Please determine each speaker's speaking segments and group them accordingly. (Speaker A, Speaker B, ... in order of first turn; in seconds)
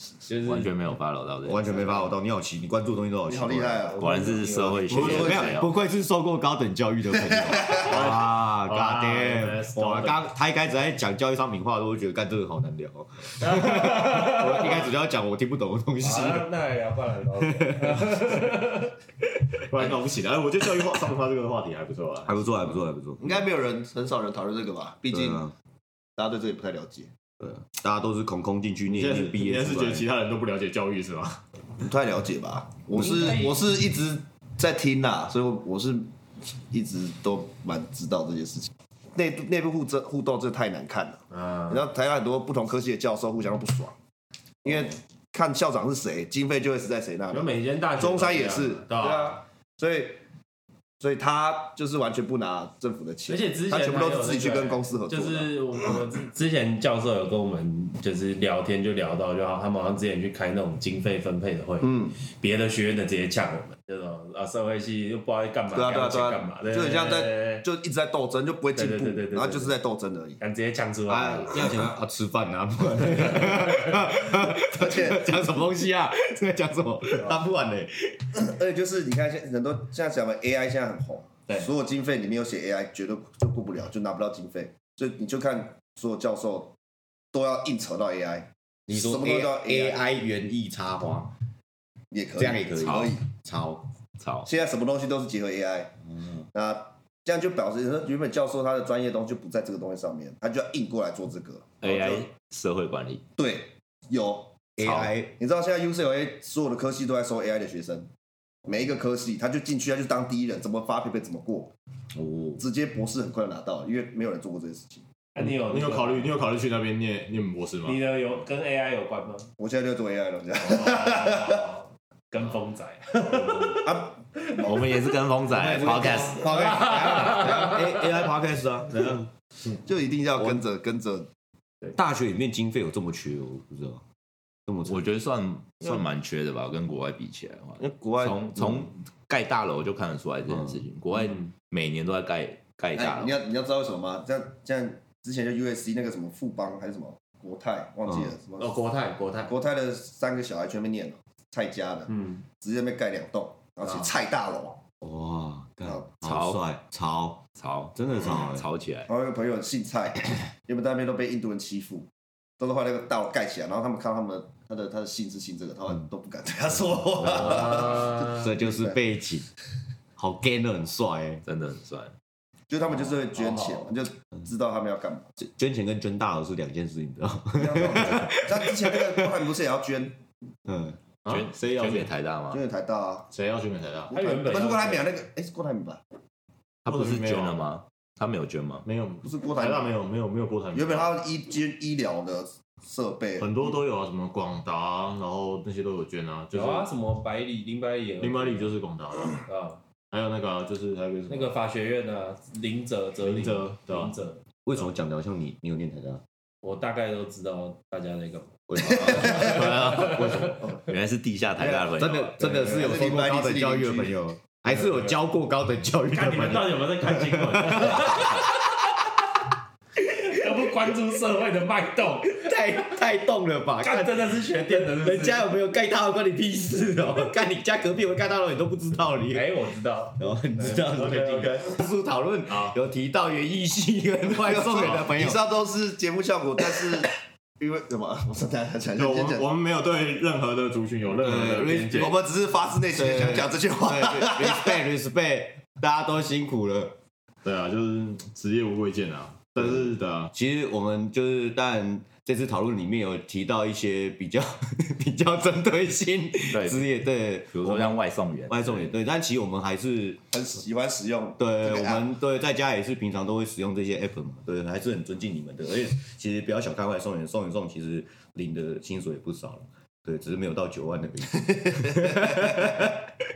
Speaker A: 0.3-0.7, 3.9-5.5, 13.4-14.9, 16.0-18.9, 33.0-33.6, 41.3-41.8, 47.3-49.4, 53.3-67.6, 68.8-69.7, 70.4-71.6, 115.3-116.3, 117.9-119.5, 120.6-125.0, 126.8-127.8, 148.6-149.5, 152.1-152.4, 173.3-173.9, 184.1-185.1, 196.5-198.7, 199.5-199.8, 201.3-204.4, 206.6-210.5, 216.1-218.5, 220.0-222.5, 223.8-225.5, 229.3-231.6
Speaker B: 0.4-2.1, 4.0-5.7, 92.7-93.2, 94.2-94.5, 101.8-103.2, 104.8-105.1, 124.5-126.5, 134.8-143.3, 156.2-156.6, 157.5-159.1, 171.4-172.1, 181.3-182.6, 186.8-188.8, 210.7-212.6, 256.5-256.9, 257.5-258.9
Speaker C: 1.4-3.9, 4.9-16.5, 17.5-18.3, 22.3-23.4, 25.1-25.5, 27.4-30.1, 71.1-78.4, 88.9-91.3, 92.3-93.9, 96.2-96.5, 104.8-105.3, 112.1-112.6, 125.5-129.2, 131.9-134.0, 134.7-135.0, 138.2-138.9, 155.0-157.4, 157.9-158.7, 167.2-169.5, 170.2-171.4, 175.4-179.2, 180.7-181.0, 204.6-206.2, 208.7-210.6, 211.6-218.3, 222.3-229.6, 230.2-235.4, 241.2-242.1, 242.9-247.0, 250.3-260.2, 261.4-273.0
Speaker D: 3.3-4.0, 7.3-7.8, 23.2-25.4, 26.2-27.1, 31.8-36.1, 36.7-44.0, 44.6-50.2, 51.0-55.5, 61.8-62.1, 65.8-70.4, 74.5-75.5, 78.3-86.8, 87.3-90.0, 92.1-93.1, 94.5-95.9, 96.5-102.2, 103.4-104.7, 105.3-108.1, 108.7-111.7, 112.6-115.0, 119.6-121.6, 123.8-124.1, 125.6-126.6, 129.8-131.3, 137.8-138.3, 142.9-148.7, 149.4-154.8, 159.1-162.1, 162.6-169.0, 172.7-175.3, 177.6-180.2, 182.5-183.3, 184.1-186.0, 189.2-189.9, 190.7-193.7, 212.5-214.2, 234.3-239.5, 241.9-244.9, 260.3-262.1, 271.5-272.4
Speaker E: 4.9-5.4, 7.7-10.2, 19.6-22.8, 28.9-31.4, 115.4-118.0, 181.2-182.1, 183.3-184.1, 186.9-187.7, 188.8-191.1, 193.4-196.9, 198.2-199.5, 200.1-201.6, 203.2-204.1, 209.1-210.6, 230.7-231.8, 234.8-235.1, 238.9-242.1, 247.4-250.3